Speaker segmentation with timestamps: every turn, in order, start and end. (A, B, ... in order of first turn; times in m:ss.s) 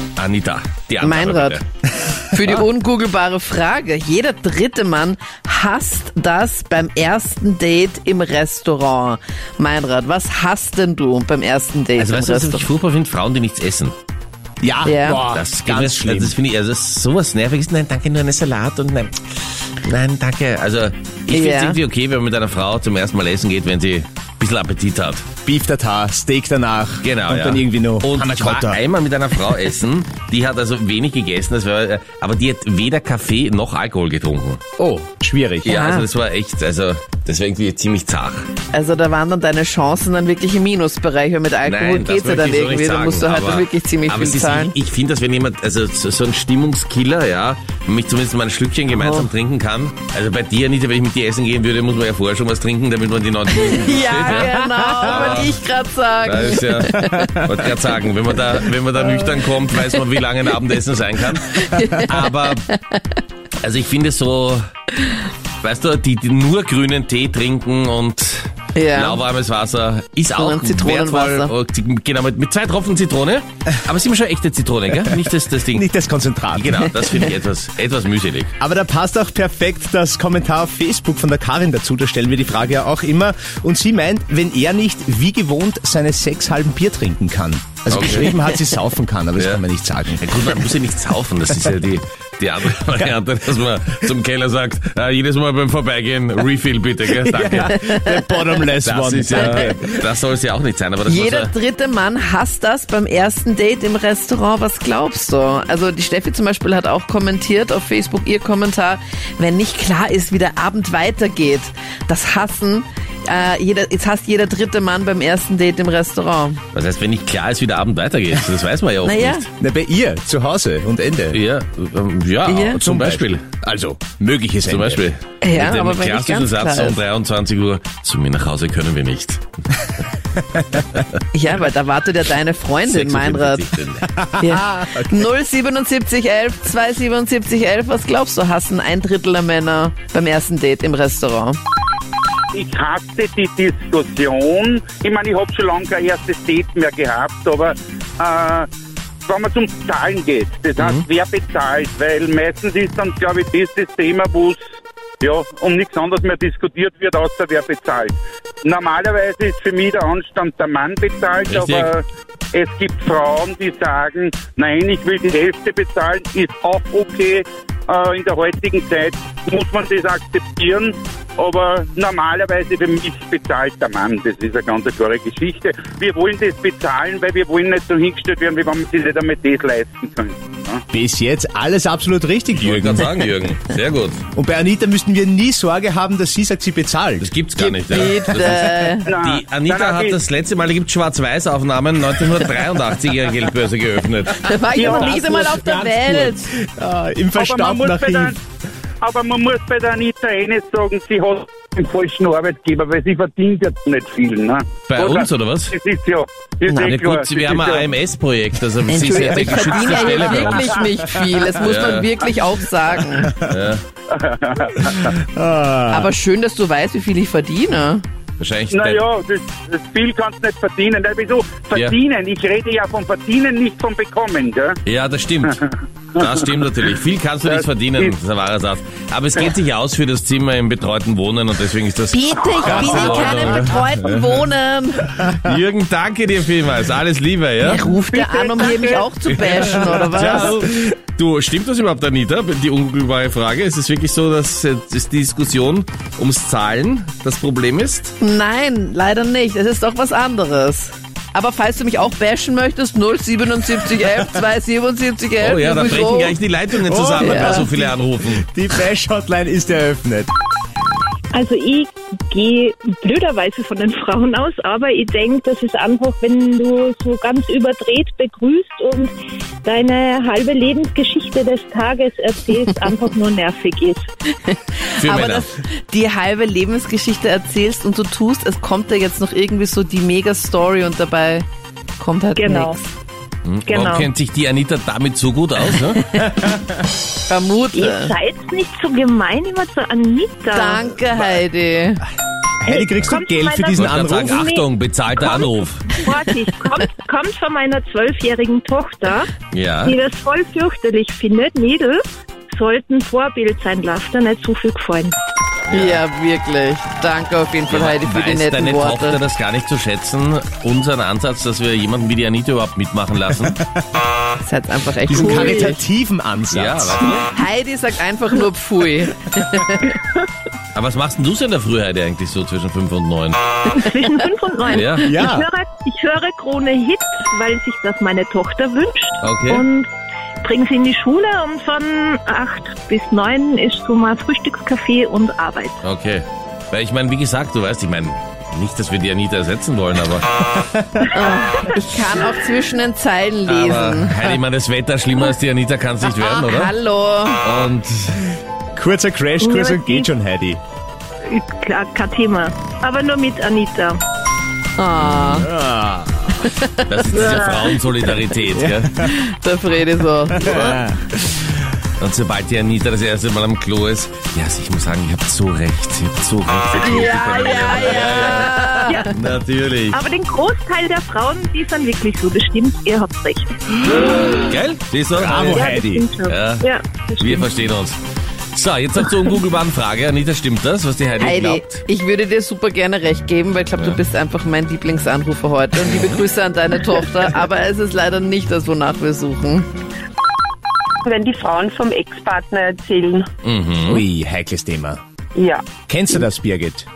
0:00.2-0:01.6 A
0:01.0-0:01.6 B
0:02.2-0:12.7 B
0:12.0-0:14.0 A
0:14.6-0:16.4 C
0:14.8-0:15.2 B
0:15.3-0:25.3 A
0:21.3-0:21.8 B
0:25.4-0:28.8 C
0:27.0-0:34.6 A
0:34.8-0:35.8 C
0:35.6-0:38.5 A
0:35.7-0:36.1 B
0:38.7-0:44.7 B
0:41.6-0:55.6 A
0:48.9-0:49.3 B
0:53.5-0:57.5 B
0:54.8-0:55.2 C
0:56.2-1:02.7 A
0:57.1-0:57.5 C
0:59.0-1:00.0 B
1:01.4-1:03.0 B
1:03.6-1:04.6 A
1:05.6-1:15.9 A
1:08.8-1:09.2 B
1:10.3-1:11.5 B
1:15.0-1:16.8 C
1:16.5-1:18.5 A
1:18.6-1:30.3 C
1:27.9-1:28.4 A
1:29.4-1:29.6 A
1:30.2-1:37.8 A
1:32.8-1:33.2 C
1:37.2-1:40.1 C
1:37.7-1:38.4 B
1:38.8-1:41.5 A
1:39.3-1:39.7 B
1:41.1-1:56.6 B
1:56.7-1:59.5 A
1:59.0-1:59.5 B
1:59.6-2:01.4 C
2:01.3-2:03.4 A
2:02.5-2:02.8 B
2:02.8-2:05.0 C
2:04.7-2:09.4 A
2:05.4-2:07.0 B
2:10.6-2:10.8 C
2:11.3-2:13.7 B
2:12.9-2:14.1 A
2:14.0-2:15.2 C
2:14.4-2:21.6 B
2:22.5-2:28.7 D
2:29.3-2:34.6 D
2:30.8-2:31.0 A
2:35.2-3:00.8 D
2:41.5-2:41.9 A
3:00.9-3:03.1 C
3:02.6-3:04.2 A
3:04.3-3:07.3 C
3:07.2-3:14.5 A
3:07.6-3:09.1 B
3:09.1-3:10.2 D
3:14.4-3:16.5 B
3:14.8-3:15.3 D
3:15.0-3:16.1 A
3:16.6-3:18.4 C
3:17.4-3:18.4 D
3:19.0-3:28.0 D
3:24.9-3:25.8 A
3:26.8-3:30.8 A
3:28.9-3:33.4 B
3:29.6-3:30.8 D
3:31.6-3:32.2 A
3:33.1-3:33.6 C
3:33.4-3:33.8 A
3:34.1-3:35.2 D
3:34.8-3:36.1 C
3:35.9-3:38.0 B
3:38.4-3:39.0 A
3:38.7-3:44.8 D
3:44.9-3:45.6 A
3:45.4-3:46.7 D
3:46.2-3:53.8 A
3:47.4-3:48.2 D
3:52.1-3:55.2 B
3:55.2-3:57.8 A
3:57.6-4:00.6 B
3:57.9-4:00.0 D
3:59.3-4:08.1 A
4:08.2-4:16.4 B
4:15.4-4:18.5 A
4:16.9-4:17.8 C
4:17.2-4:17.7 B
4:18.3-4:20.3 C
4:21.3-4:29.1 E
4:29.6-4:34.0 E
4:34.4-4:41.4 B
4:35.0-4:35.5 A
4:42.0-4:42.9 B
4:42.4-4:42.8 E
4:43.4-4:46.2 A
4:43.7-4:44.1 E
4:47.3-4:48.2 B
4:47.7-4:50.9 E
4:50.5-4:52.0 B
4:52.6-4:54.5 C
4:52.7-4:59.3 E
4:53.8-4:56.0 A
4:59.5-5:00.0 A
4:59.8-5:05.2 E
5:05.7-5:06.0 A
5:05.7-5:09.2 B
5:07.7-5:13.6 A
5:14.4-5:15.8 B
5:15.1-5:17.1 C
5:15.1-5:15.7 E
5:16.5-5:17.3 A
5:17.3-5:20.0 B
5:20.8-5:23.6 A
5:23.6-5:29.9 E
5:24.7-5:25.1 A
5:24.8-5:25.5 C
5:29.2-5:29.7 A
5:30.4-5:35.8 E
5:35.8-5:40.3 A
5:40.5-5:41.2 C
5:41.1-5:44.4 B
5:43.5-5:46.7 A
5:46.0-5:47.4 B
5:47.4-5:48.4 A
5:48.8-5:50.6 C
5:49.4-5:50.1 E
5:51.3-5:54.0 E
5:54.8-5:55.5 B
5:55.0-5:55.5 A
5:55.4-5:56.5 C
5:56.4-5:58.0 B
5:56.9-5:58.9 A
5:58.6-5:59.2 C
5:59.0-6:01.0 B
6:00.3-6:01.3 C
6:02.0-6:10.0 A
6:06.7-6:09.1 B
6:08.8-6:09.1 E
6:09.9-6:14.3 E
6:14.5-6:15.6 A
6:15.1-6:16.1 C
6:15.3-6:17.5 E
6:16.3-6:16.7 A
6:17.2-6:18.0 A
6:18.5-6:21.8 A
6:21.2-6:29.7 B
6:25.8-6:26.2 A
6:31.0-6:33.3 F
6:33.4-6:34.0 A
6:33.9-6:35.0 C
6:35.4-6:35.6 F
6:35.9-6:36.9 C